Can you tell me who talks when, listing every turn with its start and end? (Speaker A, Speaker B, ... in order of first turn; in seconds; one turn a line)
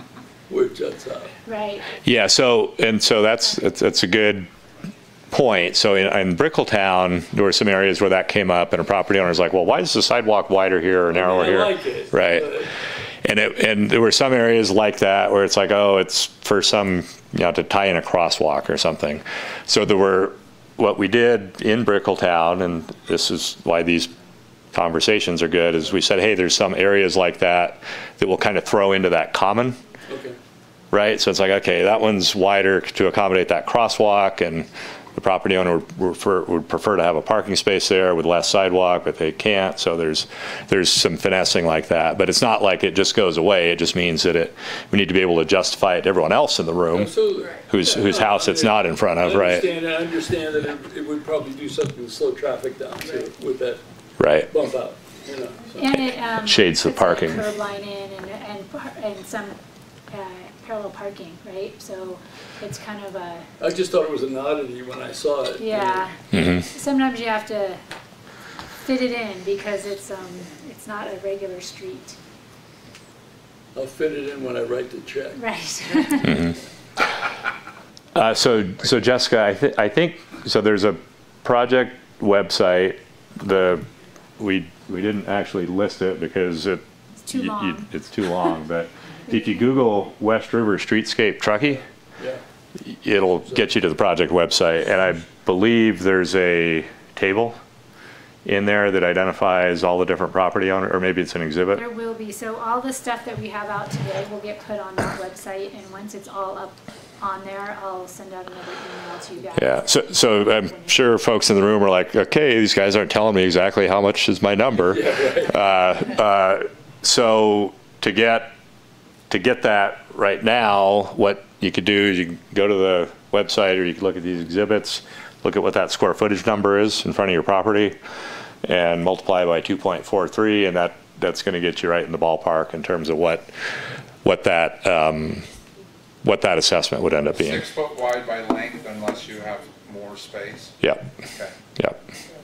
Speaker A: 0.5-1.3
Speaker B: 1.4-1.9
Speaker C: 2.0-4.5
Speaker C: 5.3-12.7
Speaker A: 11.1-12.7
Speaker C: 13.2-24.1
Speaker C: 24.7-29.8
Speaker A: 30.1-30.4
Speaker C: 30.9-47.1
Speaker A: 46.9-53.8
Speaker C: 47.7-49.6
Speaker C: 54.2-54.5
Speaker A: 54.5-56.1
Speaker B: 55.8-59.6
Speaker C: 56.4-57.5
Speaker B: 60.1-63.5
Speaker A: 63.6-66.1
Speaker B: 65.6-67.8
Speaker C: 66.3-66.7
Speaker B: 68.8-72.2
Speaker A: 73.7-75.4
Speaker B: 75.3-76.3
Speaker C: 76.2-76.5
Speaker C: 78.1-83.8
Speaker C: 84.4-91.8
Speaker B: 87.2-87.8
Speaker C: 92.9-97.6
Speaker C: 98.4-101.8
Speaker B: 101.7-109.8
Speaker C: 109.5-118.5
Speaker A: 114.8-115.5
Speaker C: 119.3-128.0
Speaker C: 128.6-133.5
Speaker C: 134.2-135.5
Speaker C: 136.2-137.6
Speaker D: 137.3-140.8
Speaker C: 140.8-141.1
Speaker D: 141.3-141.5